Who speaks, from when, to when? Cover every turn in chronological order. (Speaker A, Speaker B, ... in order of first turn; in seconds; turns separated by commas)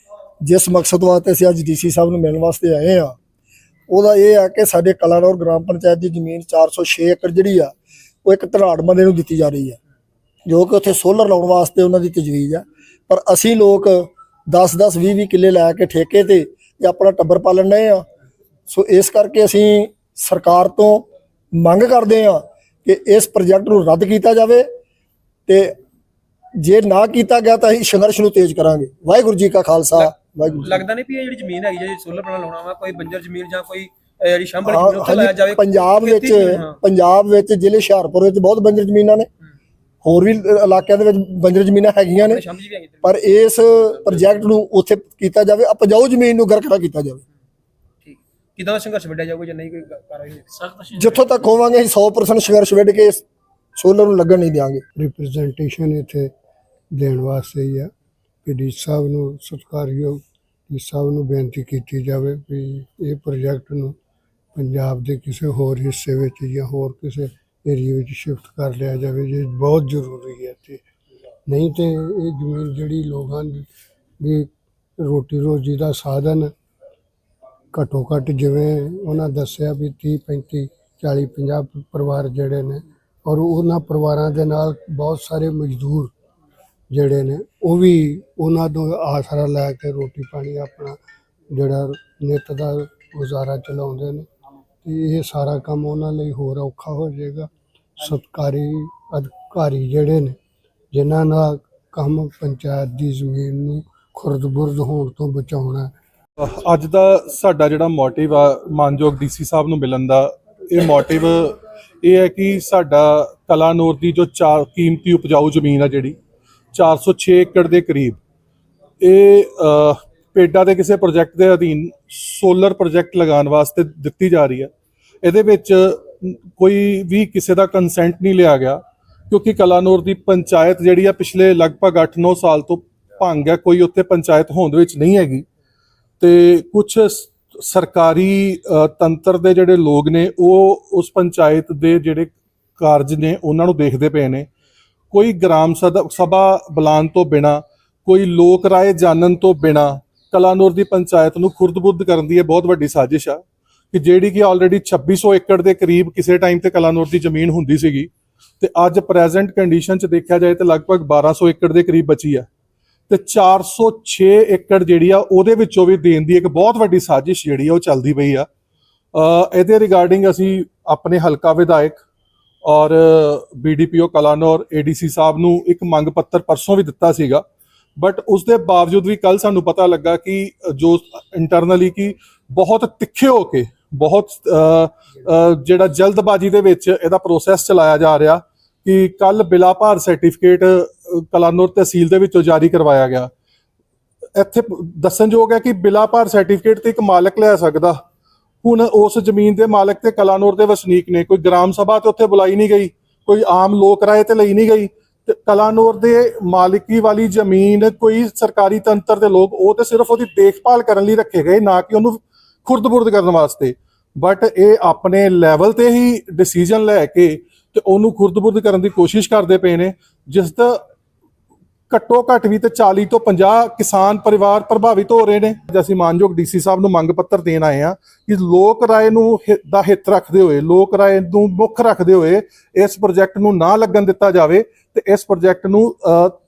Speaker A: 0.4-3.1, Speaker A: 3.9-7.7, Speaker A: 8.2-9.8, Speaker A: 10.4-18.1, Speaker A: 18.7-24.7, Speaker A: 25.5-25.7, Speaker A: 26.6-30.8, Speaker B: 29.9-36.8, Speaker A: 34.6-39.3, Speaker A: 40.0-42.4, Speaker B: 42.2-44.4, Speaker A: 43.0-47.2, Speaker B: 48.0-51.1, Speaker A: 50.9-53.2, Speaker A: 53.8-54.8, Speaker C: 55.0-56.3, Speaker C: 56.9-57.9, Speaker C: 58.4-63.9, Speaker C: 64.5-70.8, Speaker C: 71.5-73.7, Speaker C: 74.2-76.5, Speaker C: 77.7-86.1, Speaker C: 86.9-91.0, Speaker C: 91.5-94.3, Speaker C: 94.8-100.4, Speaker C: 100.9-105.9, Speaker D: 106.4-116.2, Speaker D: 116.7-118.2, Speaker D: 119.0-124.7, Speaker D: 125.2-135.4, Speaker D: 136.2-144.5, Speaker D: 145.1-162.5, Speaker D: 163.1-168.5, Speaker D: 169.1-172.0, Speaker D: 172.6-177.4, Speaker D: 178.0-193.3, Speaker D: 194.3-198.0, Speaker D: 198.6-220.8, Speaker D: 221.9-236.3